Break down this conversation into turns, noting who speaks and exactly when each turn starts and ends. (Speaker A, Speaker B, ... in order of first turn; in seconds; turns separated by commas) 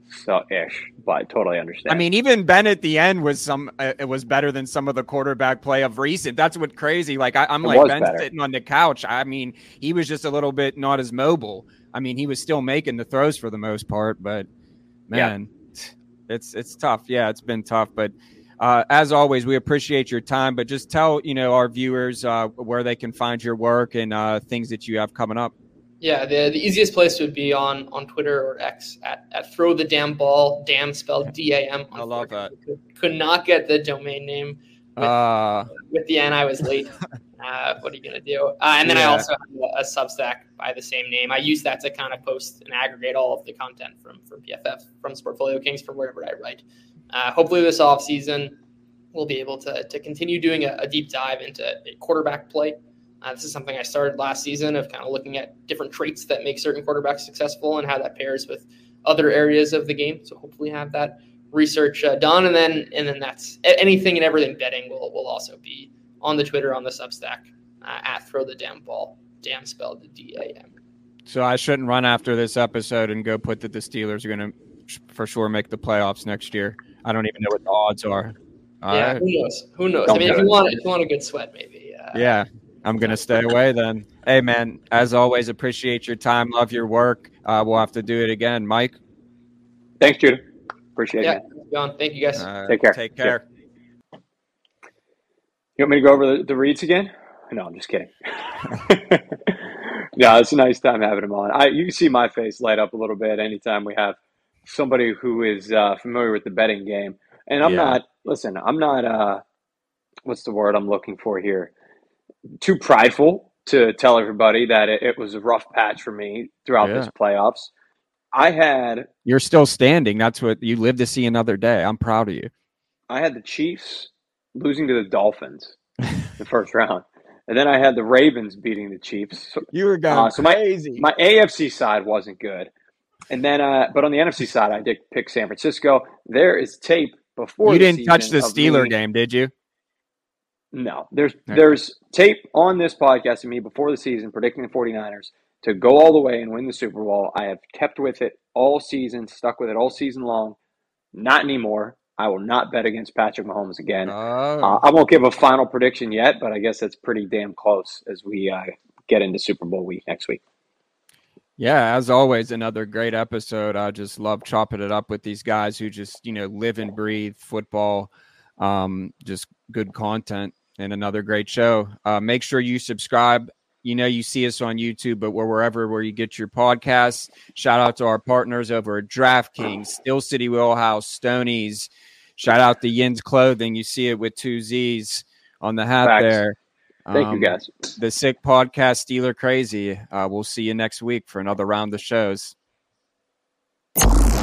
Speaker A: 0.1-2.0, Speaker B: 1.9-14.5, Speaker A: 7.6-8.3, Speaker B: 15.1-25.5, Speaker C: 26.0-35.2, Speaker B: 31.9-32.5, Speaker B: 35.0-35.7, Speaker C: 35.8-48.6, Speaker B: 38.8-39.3, Speaker C: 49.1-70.7, Speaker B: 71.3-79.2, Speaker C: 78.9-82.3, Speaker A: 80.1-80.5, Speaker B: 80.1-80.5, Speaker B: 82.1-89.0, Speaker A: 90.0-90.4, Speaker A: 91.0-91.4, Speaker C: 91.2-92.5, Speaker B: 92.4-93.4, Speaker A: 92.7-93.3, Speaker A: 95.8-109.4, Speaker B: 107.6-108.0, Speaker A: 110.3-111.7, Speaker A: 112.6-117.7, Speaker B: 116.8-117.1, Speaker A: 118.3-119.1, Speaker B: 119.3-122.5, Speaker A: 123.1-125.7, Speaker A: 126.4-132.7, Speaker B: 129.7-131.1, Speaker A: 133.3-138.9, Speaker B: 137.6-139.5, Speaker A: 140.7-150.6, Speaker A: 151.1-160.4, Speaker B: 154.1-154.8, Speaker B: 161.6-192.6, Speaker A: 186.0-186.4, Speaker A: 187.1-187.7